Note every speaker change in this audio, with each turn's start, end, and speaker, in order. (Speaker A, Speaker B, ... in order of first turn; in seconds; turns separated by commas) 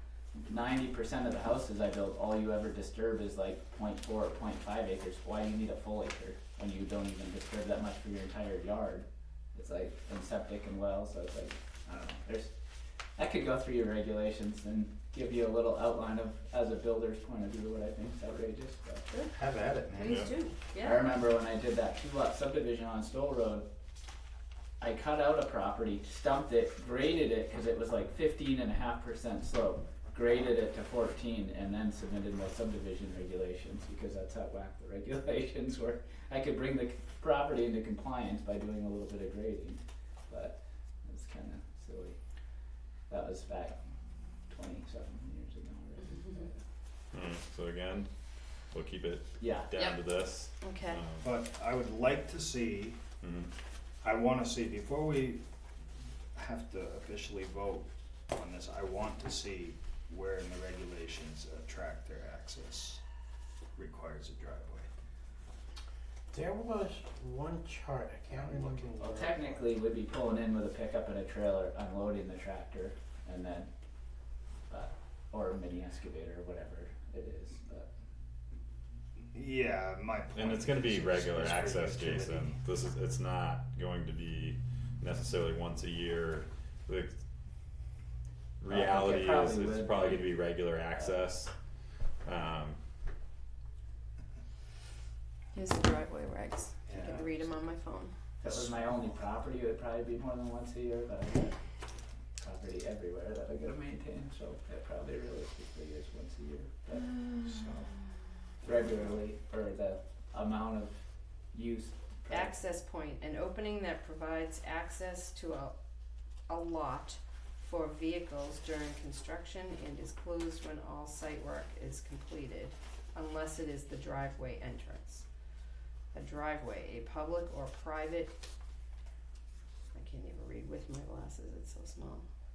Speaker A: 0.5-12.5, Speaker A: 13.2-19.1, Speaker B: 19.1-19.3, Speaker C: 19.3-20.2, Speaker B: 19.9-21.1, Speaker A: 20.8-23.7, Speaker A: 24.8-42.2, Speaker A: 43.1-43.8, Speaker A: 44.5-46.6, Speaker B: 46.1-46.5, Speaker D: 47.1-48.1, Speaker D: 48.7-51.3, Speaker A: 49.4-49.7, Speaker B: 50.6-51.0, Speaker C: 51.2-53.0, Speaker D: 53.2-53.5, Speaker C: 54.0-55.4, Speaker C: 56.4-63.0, Speaker C: 63.8-64.9, Speaker E: 66.3-69.6, Speaker C: 68.3-69.3, Speaker A: 69.0-73.7, Speaker A: 74.7-77.9, Speaker C: 79.3-82.6, Speaker D: 80.3-87.1, Speaker D: 88.6-91.5, Speaker A: 88.7-90.3, Speaker D: 92.2-92.8, Speaker B: 95.5-98.1, Speaker C: 96.9-97.4, Speaker A: 98.4-101.5, Speaker C: 98.5-98.7, Speaker A: 102.4-107.2, Speaker B: 107.0-107.7, Speaker C: 107.4-107.9, Speaker C: 108.6-109.2, Speaker A: 108.6-111.0, Speaker A: 111.5-112.6, Speaker B: 112.3-115.8, Speaker B: 116.5-125.3, Speaker B: 126.1-128.4, Speaker B: 129.9-132.3